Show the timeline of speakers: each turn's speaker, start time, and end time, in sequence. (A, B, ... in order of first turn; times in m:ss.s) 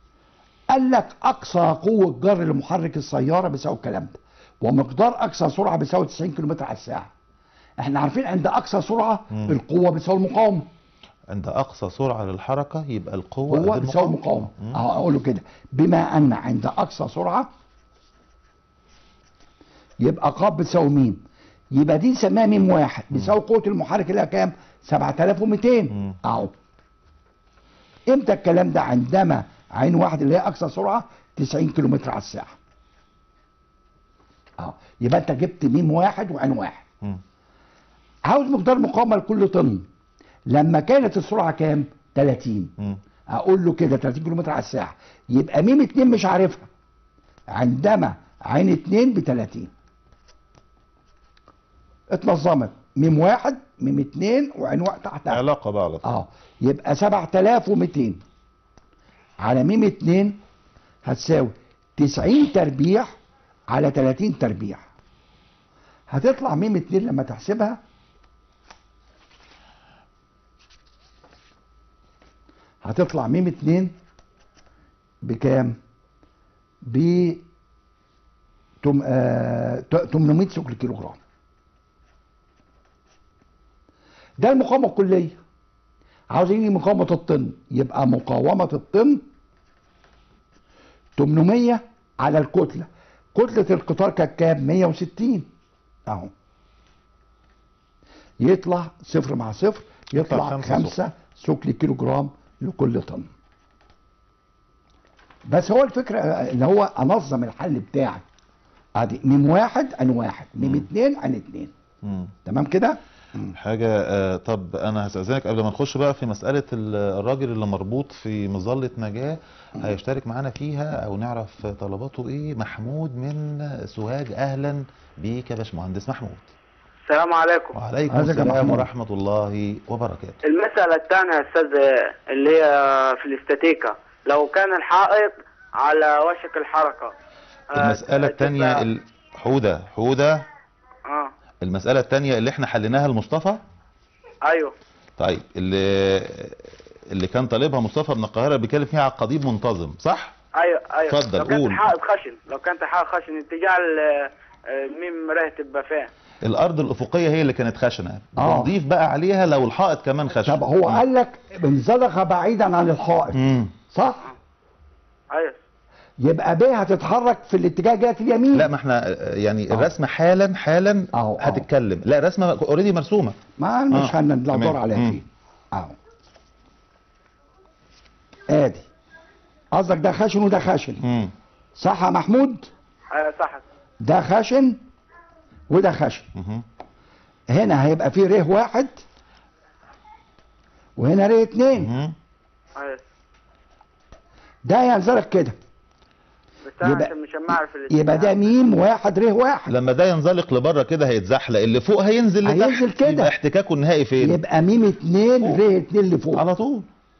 0:00.7-0:07.1 A
0:07.8-0:10.7 A
0:11.3-0:14.8 B
0:13.5-0:17.5 A
0:20.0-0:26.5 A
0:28.1-0:32.6 A
0:34.6-0:36.8 A
0:38.2-0:39.9 A
0:40.5-0:42.7 A
0:43.3-0:46.7 A
0:47.5-0:49.7 A
0:52.1-0:55.4 A
0:55.3-0:56.0 B
0:56.0-0:58.2 A
0:59.4-1:00.4 A
1:01.0-1:03.1 A
1:03.7-1:04.8 A
1:06.1-1:07.8 A
1:12.8-1:13.9 A
1:15.2-1:15.8 A
1:16.8-1:17.4 A
1:18.8-1:21.2 A
1:24.4-1:25.4 A
1:26.3-1:29.2 A
1:31.2-1:35.5 A
1:36.1-1:36.3 A
1:38.4-1:43.3 A
1:40.1-1:41.0 B
1:45.5-1:48.2 A
1:49.0-1:51.7 A
1:50.6-1:50.9 B
1:52.0-1:52.3 B
1:52.4-1:53.5 A
1:53.5-2:06.4 B
2:07.0-2:07.8 C
2:07.7-2:10.4 B
2:08.1-2:08.8 A
2:10.4-2:17.1 C
2:17.7-2:18.8 C
2:17.7-2:20.4 B
2:21.0-2:21.3 C
2:21.6-2:23.6 B
2:24.4-2:24.7 C
2:25.2-2:30.3 B
2:30.5-2:36.1 C
2:31.1-2:31.8 B
2:36.4-2:41.0 B
2:38.4-2:38.7 A
2:40.4-2:44.3 A
2:43.3-2:43.7 B
2:45.3-2:45.6 C
2:46.2-2:48.7 A
2:48.5-2:53.4 B
2:51.1-2:51.7 A
2:53.6-2:56.0 A
2:53.9-2:55.2 B
2:58.5-2:58.9 A
2:59.7-3:01.0 A
3:01.0-3:01.3 B
3:01.8-3:02.7 A
3:03.1-3:03.6 C
3:04.0-3:04.8 A
3:05.7-3:06.3 A
3:06.3-3:06.6 B
3:07.5-3:09.0 A
3:11.0-3:11.9 A
3:11.8-3:12.2 B
3:12.8-3:13.0 C
3:14.6-3:15.6 A
3:16.6-3:18.4 C
3:16.8-3:17.1 A
3:17.9-3:19.7 A
3:19.7-3:24.4 B
3:22.4-3:23.3 A
3:24.2-3:26.4 A
3:26.3-3:26.9 B